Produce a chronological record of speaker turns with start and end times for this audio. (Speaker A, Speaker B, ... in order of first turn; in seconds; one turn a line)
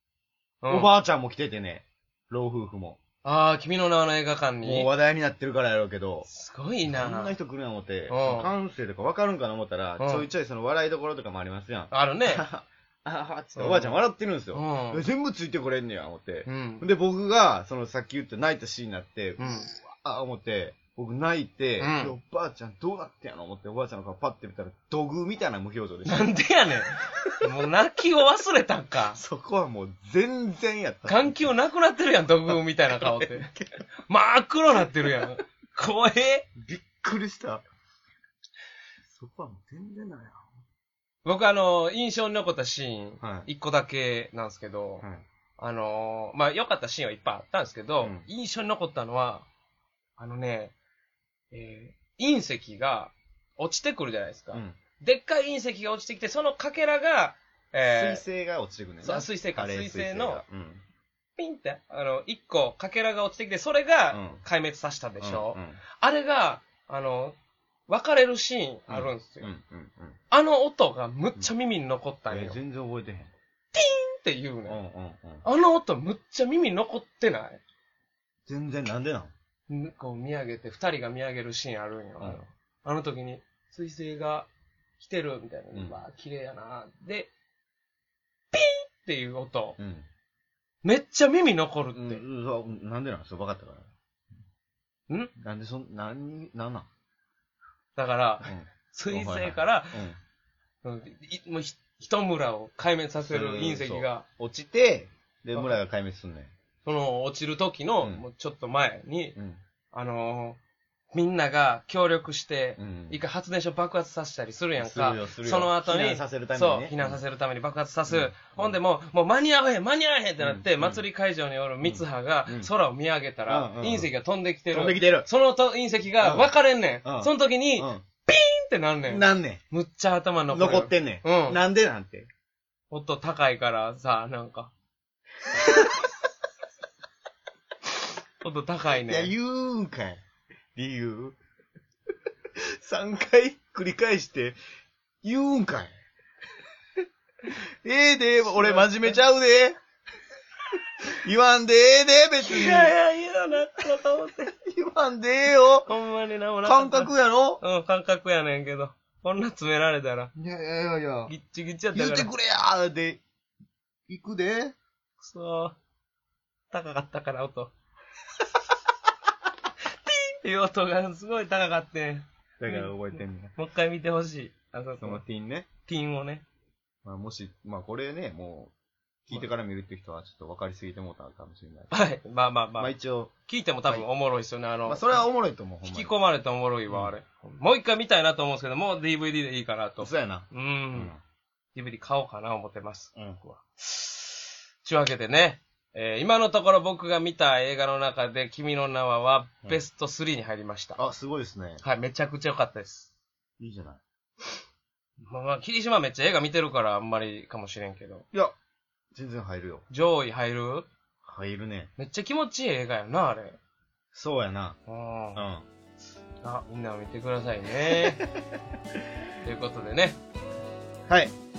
Speaker A: 0.6-0.9
Speaker B: 0.7-3.0
Speaker A: 3.2-4.9
Speaker B: 4.6-6.3
Speaker A: 6.3-7.3
Speaker B: 6.9-26.3
Speaker A: 8.1-8.5
Speaker A: 10.0-10.3
Speaker A: 11.9-12.4
Speaker A: 13.6-14.0
Speaker A: 14.5-15.1
Speaker A: 16.5-16.9
Speaker A: 19.4-19.7
Speaker A: 21.8-22.1
Speaker A: 26.1-29.2
Speaker B: 29.2-31.5
Speaker A: 31.1-33.5
Speaker B: 32.9-33.7
Speaker A: 34.1-36.5
Speaker B: 36.6-37.6
Speaker B: 39.1-40.5
Speaker A: 41.2-45.0
Speaker B: 43.2-43.5
Speaker A: 45.6-49.5
Speaker A: 50.2-50.7
Speaker A: 51.5-58.2
Speaker B: 54.5-54.8
Speaker B: 57.9-60.8
Speaker A: 59.0-60.4
Speaker A: 61.4-67.4
Speaker B: 64.1-64.4
Speaker B: 65.2-65.8
Speaker A: 67.9-69.5
Speaker B: 68.9-70.2
Speaker A: 70.3-72.6
Speaker B: 72.3-73.3
Speaker A: 73.7-74.8
Speaker B: 74.7-75.5
Speaker A: 75.4-77.6
Speaker B: 78.5-79.3
Speaker A: 79.7-84.5
Speaker A: 85.0-87.3
Speaker B: 85.7-86.0
Speaker A: 88.5-89.8
Speaker B: 89.8-90.1
Speaker A: 90.8-92.2
Speaker B: 91.9-93.9
Speaker B: 95.4-96.9
Speaker A: 98.0-100.0
Speaker B: 98.5-100.2
Speaker A: 100.8-104.2
Speaker B: 103.2-106.5
Speaker A: 106.8-109.4
Speaker A: 109.9-110.6
Speaker A: 111.1-131.6
Speaker B: 112.8-113.2
Speaker B: 114.8-117.2
Speaker B: 118.1-118.8
Speaker B: 120.4-121.0
Speaker B: 121.8-122.7
Speaker B: 123.5-124.1
Speaker B: 124.7-125.3
Speaker B: 126.2-126.5
Speaker B: 127.0-128.1
Speaker B: 129.1-129.6
Speaker B: 130.5-132.3
Speaker A: 132.9-134.7
Speaker B: 135.5-136.1
Speaker A: 138.4-139.3
Speaker B: 138.9-140.2
Speaker B: 140.8-141.4
Speaker B: 142.6-144.6
Speaker B: 145.2-145.9
Speaker B: 147.5-149.8
Speaker A: 148.5-149.2
Speaker B: 151.2-152.9
Speaker A: 152.4-154.5
Speaker B: 154.6-155.9
Speaker A: 155.9-160.3
Speaker B: 156.6-157.6
Speaker B: 160.4-161.3
Speaker A: 161.3-162.3
Speaker B: 161.9-163.2
Speaker B: 164.1-164.8
Speaker A: 165.2-165.8
Speaker A: 166.7-167.7
Speaker A: 170.1-175.2
Speaker B: 172.6-173.5
Speaker B: 175.0-175.7
Speaker A: 175.9-176.4
Speaker B: 177.0-178.7
Speaker B: 179.3-181.9
Speaker A: 181.9-182.9
Speaker B: 182.8-183.3
Speaker A: 183.5-185.2
Speaker B: 184.9-186.1
Speaker A: 185.8-191.1
Speaker B: 190.0-191.2
Speaker A: 191.8-201.0
Speaker B: 201.0-201.8
Speaker A: 201.8-203.1
Speaker B: 203.6-204.0
Speaker A: 205.2-208.3
Speaker B: 209.1-209.8
Speaker A: 209.9-210.9
Speaker B: 211.2-211.9
Speaker A: 212.0-213.6
Speaker B: 214.1-214.8
Speaker A: 214.9-215.4
Speaker B: 215.3-215.7
Speaker A: 216.4-218.2
Speaker B: 217.8-218.3
Speaker A: 219.4-220.2
Speaker B: 221.1-221.3